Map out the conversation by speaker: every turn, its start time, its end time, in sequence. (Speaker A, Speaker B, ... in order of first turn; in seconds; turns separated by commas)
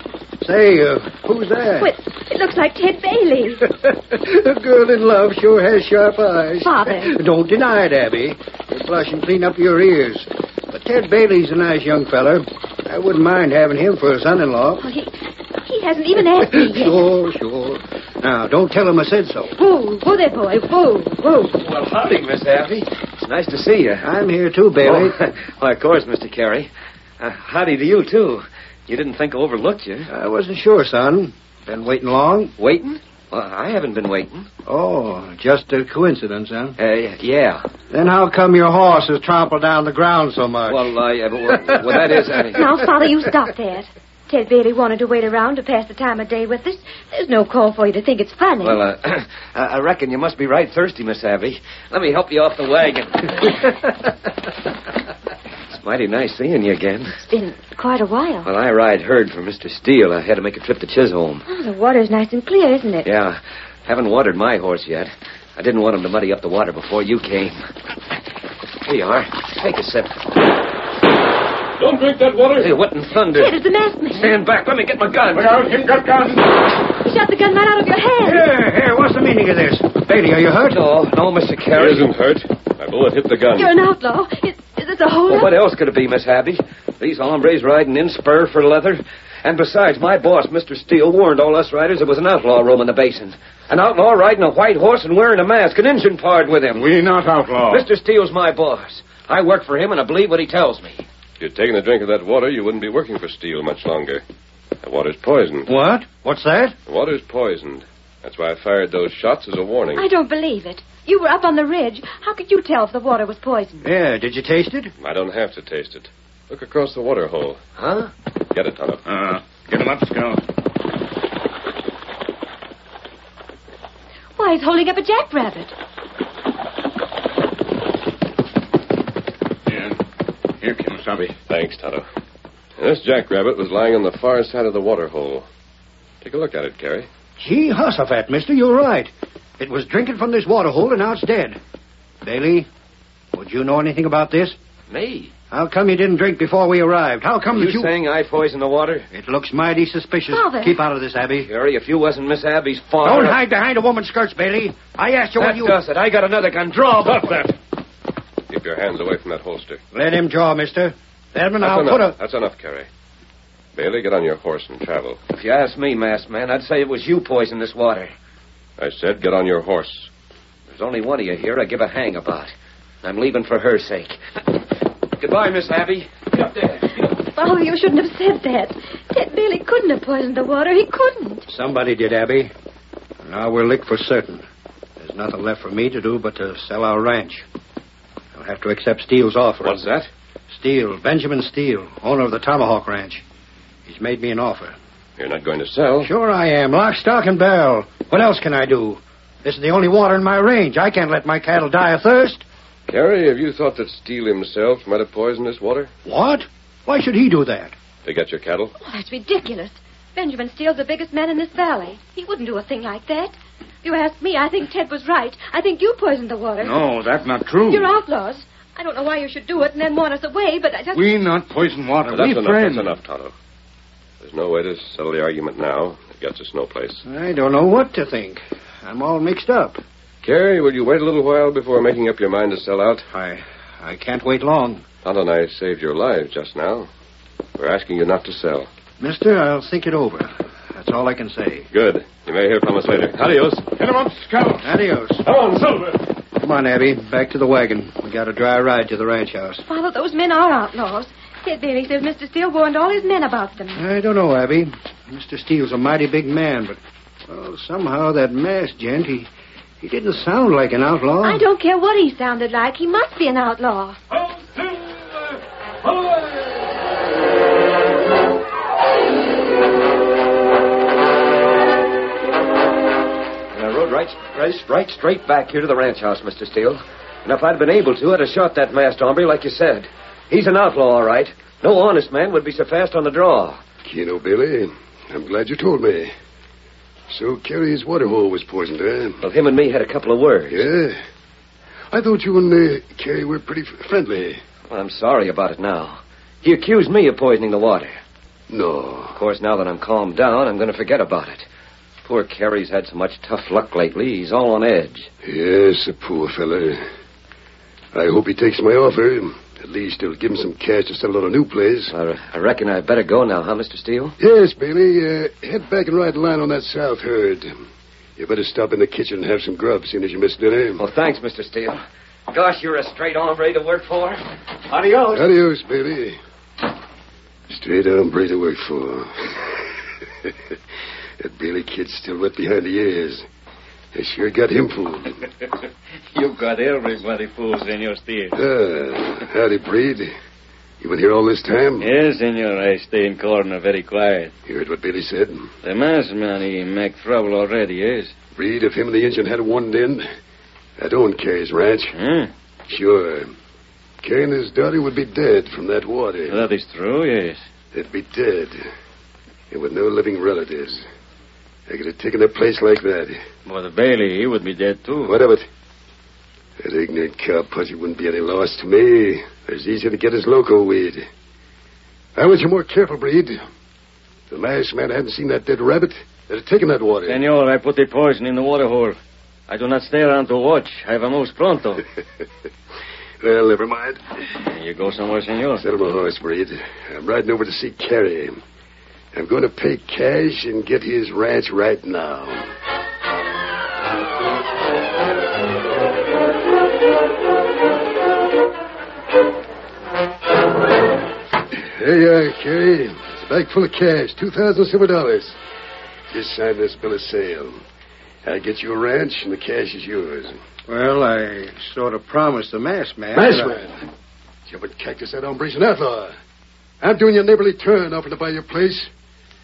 Speaker A: 0.4-1.9, Speaker B: 1.8-3.6, Speaker A: 3.8-14.8, Speaker B: 6.6-7.2, Speaker B: 14.8-15.1, Speaker B: 15.7-17.0, Speaker A: 16.4-19.5, Speaker B: 19.6-21.6, Speaker C: 21.6-24.1, Speaker A: 24.0-25.2, Speaker C: 24.8-30.1, Speaker A: 30.1-32.5, Speaker C: 32.6-34.5, Speaker A: 34.7-36.8, Speaker C: 36.8-37.7, Speaker A: 37.9-40.9, Speaker C: 40.7-42.7, Speaker B: 42.5-48.8, Speaker C: 48.6-54.0, Speaker C: 55.7-57.2, Speaker B: 57.2-58.5, Speaker C: 58.5-61.5, Speaker B: 61.5-63.1, Speaker C: 63.0-67.6, Speaker C: 68.8-70.2, Speaker D: 71.8-72.8, Speaker C: 72.6-73.5, Speaker B: 73.3-74.4, Speaker C: 74.1-75.5, Speaker E: 75.3-76.5, Speaker B: 77.0-78.5, Speaker A: 78.2-80.8, Speaker C: 80.7-82.1, Speaker D: 81.8-83.8, Speaker B: 83.5-85.5, Speaker C: 85.3-96.9, Speaker E: 96.8-97.9, Speaker C: 97.7-101.0, Speaker D: 101.4-104.2, Speaker D: 104.8-105.7, Speaker A: 105.7-106.8, Speaker D: 106.9-110.1, Speaker B: 110.0-113.8, Speaker A: 113.8-114.9, Speaker D: 115.0-117.6, Speaker C: 117.8-118.1, Speaker D: 118.5-119.0, Speaker E: 119.1-120.4, Speaker B: 124.4-125.7, Speaker E: 129.7-130.0, Speaker E: 130.6-131.3, Speaker D: 131.5-132.1, Speaker D: 132.8-135.5, Speaker D: 136.2-137.1, Speaker A: 137.4-141.6, Speaker A: 142.2-142.7, Speaker A: 143.3-144.6, Speaker C: 144.9-145.3, Speaker A: 145.5-147.9, Speaker C: 147.5-149.1, Speaker A: 149.1-151.5, Speaker B: 150.3-150.8, Speaker C: 151.4-153.4, Speaker A: 153.0-155.8, Speaker C: 155.4-157.5, Speaker D: 157.1-157.5, Speaker D: 158.5-159.8, Speaker A: 159.9-162.2, Speaker D: 161.6-162.9, Speaker D: 163.8-165.2, Speaker C: 165.3-168.1, Speaker D: 168.8-170.1, Speaker C: 170.7-174.2, Speaker C: 175.2-177.1, Speaker B: 177.3-181.4, Speaker A: 181.5-182.5, Speaker A: 183.2-184.4, Speaker A: 185.0-187.4, Speaker A: 188.3-189.8, Speaker D: 189.6-190.1, Speaker A: 190.5-193.2, Speaker A: 193.9-194.8, Speaker D: 195.2-196.1, Speaker A: 196.0-202.4, Speaker D: 202.9-205.9, Speaker A: 206.1-207.7, Speaker D: 208.1-208.7, Speaker B: 208.8-216.8, Speaker E: 216.6-218.0, Speaker B: 217.7-221.1, Speaker E: 220.9-223.0, Speaker D: 222.1-223.3, Speaker D: 224.2-227.0, Speaker A: 227.1-229.8, Speaker D: 230.2-233.1, Speaker A: 233.1-234.8, Speaker D: 235.0-236.9, Speaker D: 237.6-238.7, Speaker A: 239.0-241.7, Speaker D: 241.7-243.7, Speaker E: 243.8-244.7, Speaker A: 244.6-245.2, Speaker D: 245.2-246.0, Speaker A: 246.4-249.6, Speaker B: 249.7-253.8, Speaker A: 253.8-259.3, Speaker A: 259.8-261.4, Speaker B: 261.2-264.0, Speaker D: 264.1-266.6, Speaker C: 273.5-283.6, Speaker F: 283.9-286.1, Speaker F: 287.1-289.2, Speaker C: 289.2-290.7, Speaker F: 290.5-291.0, Speaker F: 291.9-294.4, Speaker C: 294.7-297.9, Speaker F: 298.5-299.2, Speaker C: 299.1-301.5, Speaker C: 302.1-305.1, Speaker F: 305.2-306.8, Speaker F: 307.9-311.9, Speaker C: 311.9-314.1, Speaker F: 314.2-317.5, Speaker F: 318.2-320.9, Speaker C: 320.8-325.3, Speaker F: 325.1-326.2, Speaker F: 327.5-329.7, Speaker F: 331.2-333.3, Speaker F: 333.9-335.2, Speaker G: 336.1-338.4, Speaker F: 338.4-340.1, Speaker F: 340.8-341.9, Speaker G: 341.8-344.3, Speaker F: 344.5-345.5, Speaker G: 345.6-348.1, Speaker F: 348.4-350.1, Speaker F: 350.8-351.9, Speaker G: 351.9-352.3, Speaker F: 352.7-353.3, Speaker F: 354.0-356.4, Speaker G: 356.3-357.4, Speaker F: 357.7-358.6, Speaker F: 359.5-360.8, Speaker F: 361.7-363.2, Speaker G: 363.5-365.2, Speaker F: 365.0-365.4, Speaker F: 366.6-371.1, Speaker F: 372.2-373.4, Speaker F: 374.3-377.2, Speaker G: 377.1-381.8, Speaker F: 383.2-384.0, Speaker G: 384.4-385.6, Speaker F: 385.6-388.4, Speaker F: 389.1-392.5, Speaker F: 401.5-405.4, Speaker F: 406.1-407.6, Speaker F: 408.2-410.4, Speaker A: 410.7-413.6, Speaker F: 413.1-413.8, Speaker F: 414.5-416.1, Speaker F: 416.8-418.9